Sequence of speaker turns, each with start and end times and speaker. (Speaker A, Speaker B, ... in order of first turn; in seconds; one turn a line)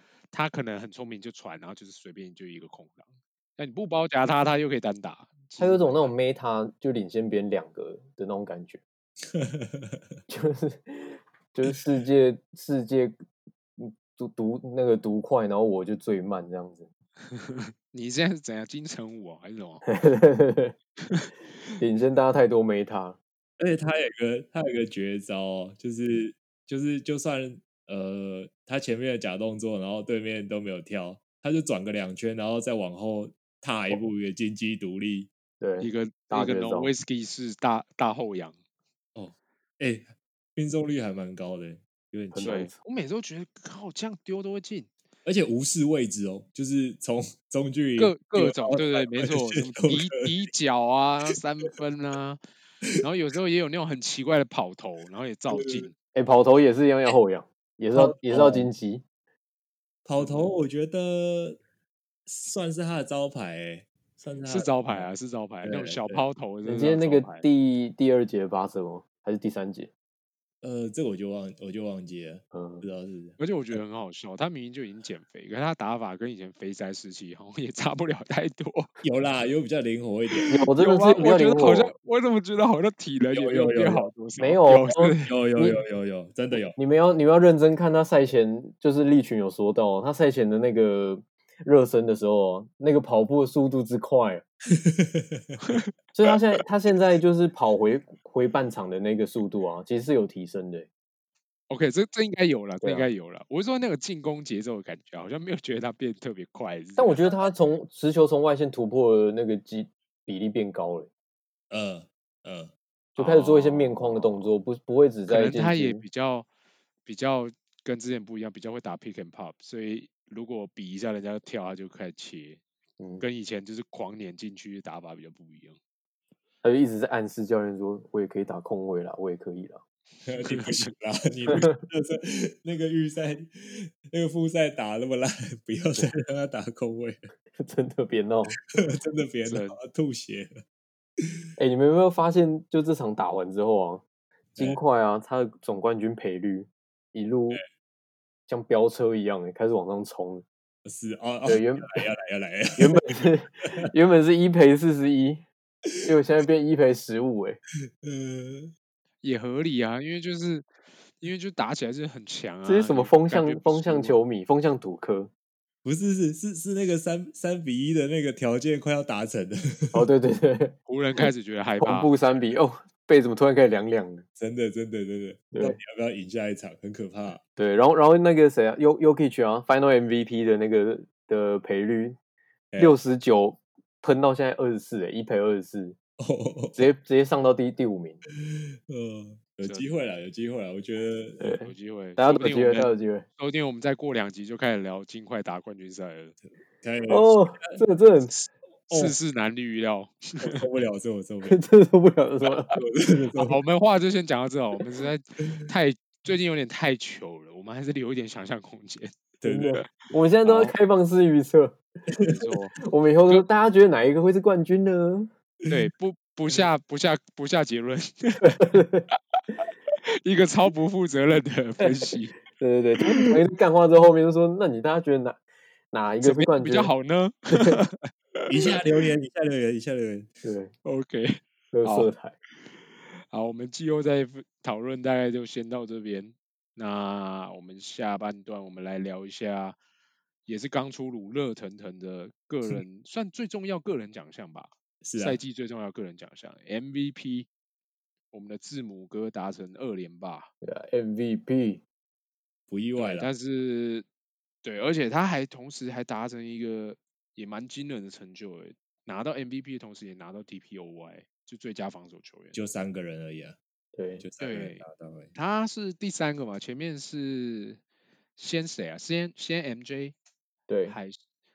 Speaker A: 0.3-6.2
Speaker B: 5.6-8.8
Speaker C: 9.3-10.0
Speaker B: 10.3-13.2
Speaker B: 13.8-16.9
Speaker A: 17.3-19.9
Speaker B: 19.9-20.8
Speaker A: 21.1-21.7
Speaker B: 21.8-23.2
Speaker C: 23.6-35.3
Speaker B: 35.6-36.9
Speaker A: 35.8-38.6
Speaker C: 39.1-42.6
Speaker B: 42.3-42.8
Speaker A: 42.4-44.9
Speaker C: 45.2-50.5
Speaker A: 48.0-52.4
Speaker A: 53.0-56.0
Speaker C: 55.5-55.9
Speaker B: 56.1-59.0
Speaker C: 58.0-58.7
Speaker C: 60.0-61.6
Speaker C: 62.3-65.1
Speaker A: 64.5-67.5
Speaker C: 65.6-66.3
Speaker B: 66.7-69.9
Speaker C: 70.6-73.8
Speaker B: 72.5-72.8
Speaker A: 73.4-78.9
Speaker C: 79.0-80.6
Speaker A: 80.5-85.4
Speaker B: 80.5-81.9
Speaker C: 83.3-84.1
Speaker B: 84.4-85.8
Speaker C: 85.3-86.8
Speaker B: 86.8-94.4
Speaker C: 94.8-95.6
Speaker B: 96.2-100.9
Speaker A: 101.7-107.5
Speaker B: 102.8-103.1
Speaker B: 107.0-111.1
Speaker C: 111.7-112.7
Speaker B: 113.2-116.0
Speaker A: 113.2-114.0
Speaker A: 115.3-116.5
Speaker A: 117.0-122.6
Speaker A: 123.2-125.8
Speaker B: 126.6-129.8
Speaker C: 130.3-137.3
Speaker A: 130.4-130.9
Speaker B: 137.6-138.6
Speaker C: 138.8-140.6
Speaker A: 139.5-139.8
Speaker B: 141.6-144.0
Speaker B: 144.6-147.6
Speaker B: 148.5-150.4
Speaker C: 150.8-153.8
Speaker B: 151.4-152.1
Speaker B: 152.8-155.4
Speaker B: 156.0-157.6
Speaker C: 158.0-158.7
Speaker A: 159.2-160.7
Speaker A: 161.2-164.2
Speaker B: 162.7-165.3
Speaker C: 165.8-170.1
Speaker B: 169.9-174.2
Speaker A: 170.9-172.2
Speaker C: 174.4-177.4
Speaker B: 175.5-175.8
Speaker B: 177.6-182.2
Speaker C: 182.7-183.0
Speaker B: 182.8-186.0
Speaker C: 186.2-186.9
Speaker B: 186.8-188.2
Speaker C: 188.4-191.4
Speaker B: 191.4-193.3
Speaker A: 191.5-196.4
Speaker C: 196.8-197.9
Speaker B: 197.1-198.4
Speaker C: 198.9-199.2
Speaker A: 198.9-200.7
Speaker C: 200.4-201.6
Speaker B: 201.4-202.8
Speaker C: 202.7-203.6
Speaker A: 203.3-209.1
Speaker C: 209.4-209.8
Speaker B: 209.4-211.8
Speaker A: 210.4-210.7
Speaker A: 212.2-213.4
Speaker B: 212.8-215.3
Speaker A: 215.7-222.4
Speaker B: 218.4-219.1
Speaker B: 222.5-225.4
Speaker B: 225.9-226.9
Speaker A: 226.2-228.5
Speaker B: 227.5-227.8
Speaker C: 228.5-230.3
Speaker B: 230.4-230.7
Speaker A: 230.8-232.1
Speaker B: 231.7-232.4
Speaker A: 233.2-239.8
Speaker A: 240.5-247.5
Speaker C: 245.0-245.4
Speaker A: 248.3-250.5
Speaker B: 250.6-251.8
Speaker C: 252.7-253.3
Speaker A: 253.0-254.1
Speaker A: 254.6-262.6
Speaker C: 262.5-263.6
Speaker B: 263.9-264.2
Speaker C: 264.2-265.3
Speaker A: 264.4-267.8
Speaker A: 268.4-270.1
Speaker B: 270.7-271.0
Speaker A: 270.9-271.2